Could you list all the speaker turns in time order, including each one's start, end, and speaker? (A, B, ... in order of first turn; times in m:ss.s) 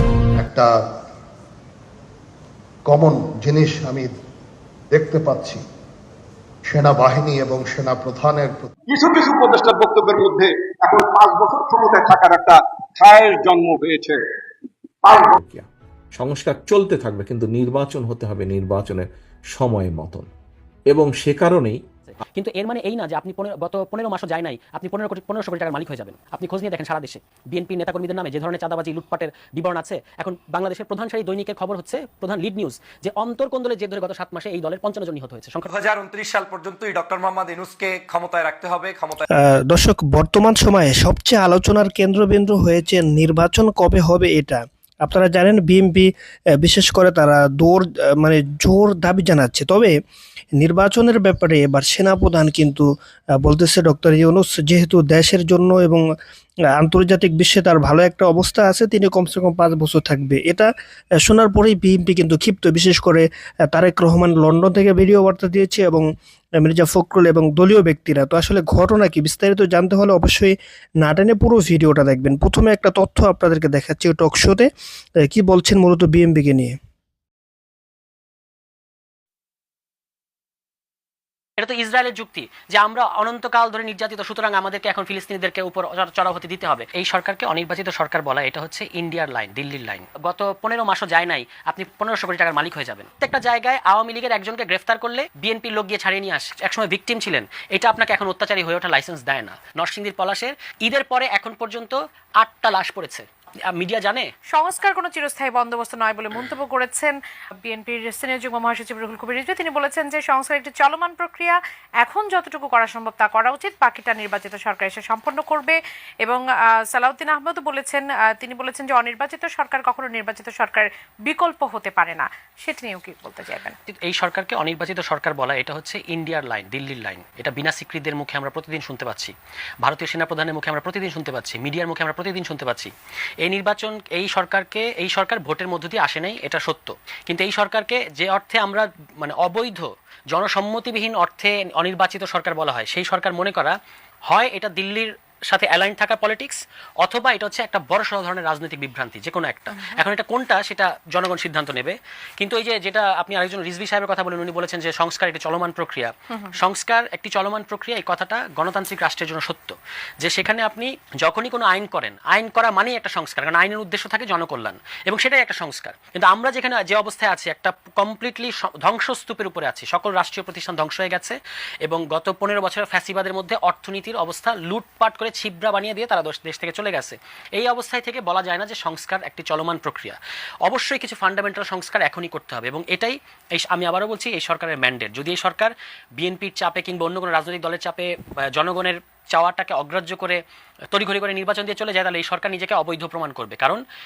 0:00.4-0:00.7 A
0:02.8-0:04.1 A
0:04.9-0:05.6 A
0:06.6-0:08.7 A
0:08.9-0:14.2 B
0:15.3-0:20.3 C
0:20.9-0:21.8 C
0:22.1-0:35.7 D
0:35.6-0:39.2 E
0:39.4-0:46.1 F
0:46.6-0:49.9 F
0:50.6-0:52.8 F
0:53.4-0:56.0 F
0:56.8-1:00.7 F
1:01.2-1:06.0 F
1:06.6-1:14.7 F
1:15.2-1:16.7 F
1:21.6-1:44.3 D
1:44.5-2:03.8 G
2:03.9-2:23.7 D
2:24.3-3:10.4 D
2:29.7-2:30.0 G
3:10.9-3:13.8 D